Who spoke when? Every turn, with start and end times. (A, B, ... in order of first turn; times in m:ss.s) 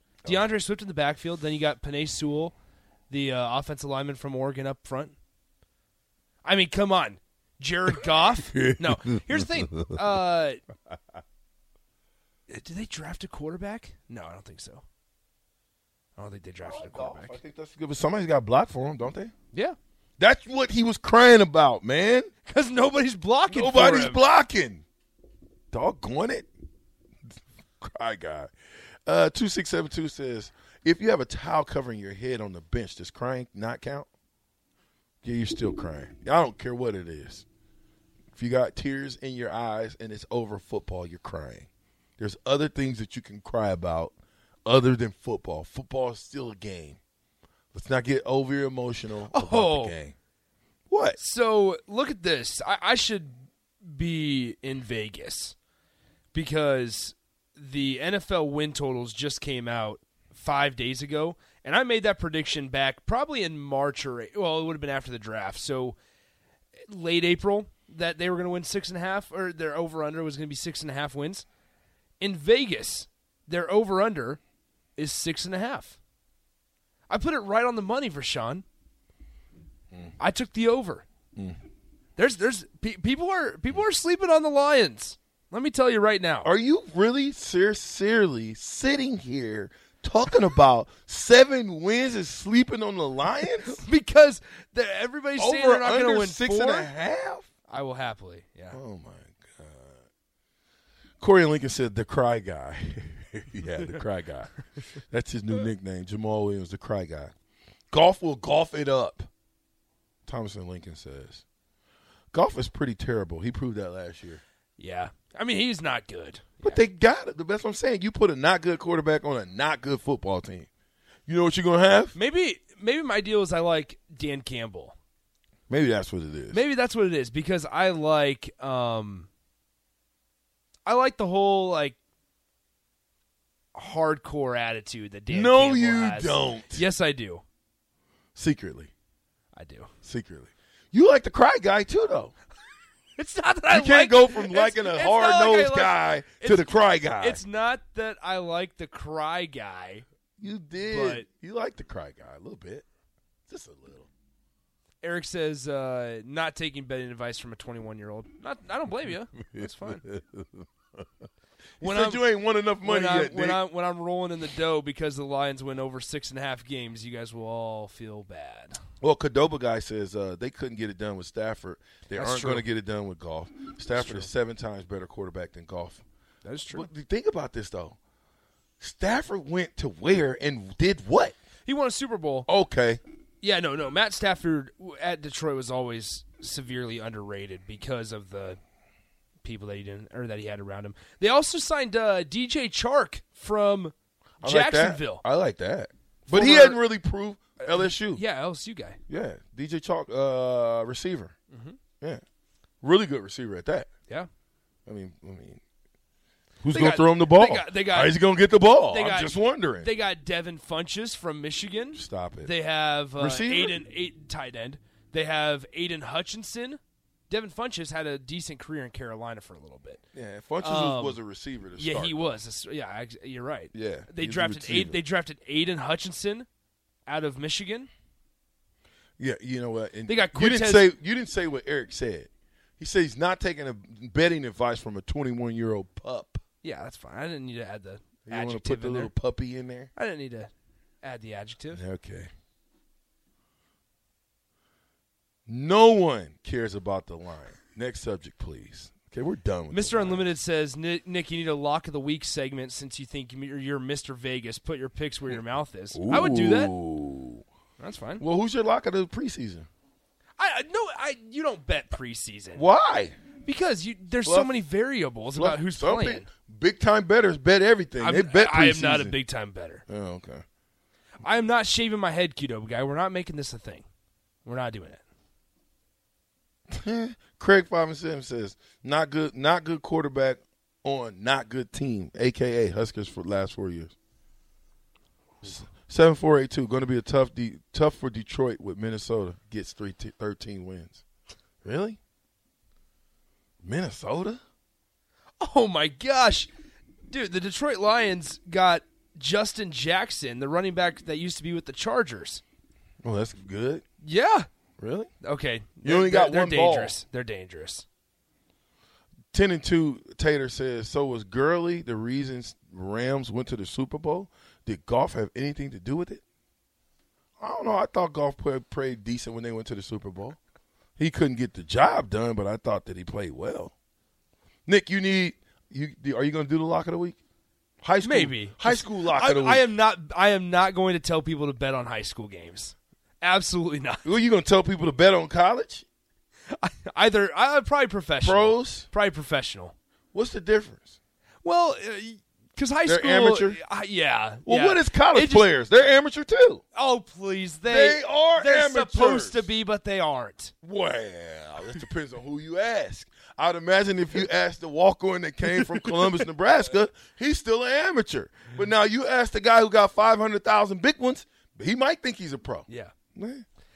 0:00.2-0:02.5 A
0:03.1-0:05.2 A
0:06.4-0:10.6 A
0:12.5-0:14.8 A
0:16.2-0:17.4 A
0:16.6-0:19.3 B
0:20.2-0:22.3 B
0:22.4-0:24.2 A
0:23.5-0:24.8 B
0:25.7-0:26.5 B
0:27.8-0:28.5 B
0:29.0-0:34.1 B
0:35.2-0:37.4 B
0:38.3-0:44.1 B
0:44.6-0:47.0 B
0:47.7-0:50.1 B
0:49.3-0:49.9 A
0:50.9-0:51.2 B
0:51.2-0:55.6 A
0:56.3-1:06.0 A
1:06.9-1:11.4 A
1:12.2-1:14.4 A
1:15.0-1:16.0 A
1:17.1-1:18.6 A
1:20.2-1:21.0 A
1:22.2-1:26.5 A
1:26.4-1:33.8 B
1:33.6-1:36.9 A
1:35.4-1:37.5 B
1:37.7-1:38.8 A
1:38.7-1:40.0 B
1:41.2-1:44.5 B
1:45.1-1:47.3 B
1:47.9-1:49.3 B
1:50.2-1:51.4 B
1:52.3-1:54.4 B
1:54.8-1:56.8 A
1:56.6-2:00.7 B
2:01.3-2:02.1 B
2:02.1-2:04.9 A
2:05.7-2:06.6 B
2:06.5-2:09.3 A
2:10.8-2:12.0 A
2:13.7-2:17.4 A
2:15.3-2:16.8 B
2:18.3-2:18.9 B
2:19.5-2:19.9 A
2:20.0-2:22.3 B
2:23.2-2:30.0 A
2:23.7-2:27.4 B
2:30.4-2:32.8 B
2:30.8-2:31.2 A
2:33.5-2:34.1 B
2:35.0-2:40.0 A
2:39.6-2:40.6 B
2:41.8-2:42.2 A
2:41.8-2:43.6 B
2:42.8-2:48.8 A
2:49.0-2:56.0 B
2:52.1-2:52.6 A
2:53.9-2:54.3 A
2:56.4-2:56.9 A
2:56.7-2:58.0 B
2:58.8-3:01.3 B
3:01.6-3:02.5 A
3:02.5-3:03.0 B
3:03.4-3:08.6 A
3:09.4-3:15.2 A
3:14.4-3:18.2 B
3:16.3-3:16.8 A
3:17.6-3:19.0 A
3:19.1-3:21.3 B
3:21.5-3:21.8 A
3:22.8-3:23.9 B
3:24.8-3:25.6 B
3:26.6-3:29.9 B
3:26.7-3:28.1 A
3:28.8-3:40.0 A
3:31.9-3:32.5 B
3:33.2-3:33.8 B
3:40.1-3:42.3 B
3:40.6-3:41.2 A
3:41.8-3:46.5 A
3:43.7-3:45.0 B
3:47.0-3:47.9 A
3:49.2-3:56.4 B
3:50.1-3:50.9 A
3:56.6-3:59.1 A
3:58.2-3:59.9 B
3:59.9-4:00.5 A
4:01.0-4:01.8 A
4:01.7-4:02.3 B
4:05.5-4:10.3 B
4:09.7-4:16.7 A
4:15.9-4:17.4 B
4:17.8-4:18.2 A
4:18.2-4:19.7 B
4:20.4-4:22.6 A
4:22.5-4:23.2 B
4:23.4-4:26.3 A
4:24.2-4:24.6 B
4:25.3-4:29.2 B
4:28.0-4:29.8 A
4:29.9-4:30.4 B
4:31.2-4:33.8 A
4:34.4-4:35.0 A
4:36.7-4:43.9 B
4:45.4-4:51.0 B
4:51.6-4:52.0 B
4:53.6-4:54.4 B
4:55.4-4:56.5 A
4:57.1-5:02.4 A
5:03.0-5:03.8 B
5:04.0-5:04.5 A
5:04.8-5:05.1 B
5:05.2-5:07.8 A
5:05.8-5:07.0 B
5:09.3-5:16.2 B
5:17.4-5:20.4 B
5:21.0-5:23.7 B
5:24.6-5:27.2 B
5:27.8-5:29.6 B
5:28.0-5:34.0 A
5:34.0-5:35.8 B
5:36.5-5:39.7 A
5:38.2-5:38.9 B
5:40.1-5:41.0 B
5:41.4-5:45.5 A
5:42.8-5:43.6 B
5:44.4-5:46.6 B
5:46.7-5:50.5 A
5:47.7-5:49.5 B
5:50.6-6:03.4 B
5:55.6-5:56.1 A
6:02.7-6:02.9 A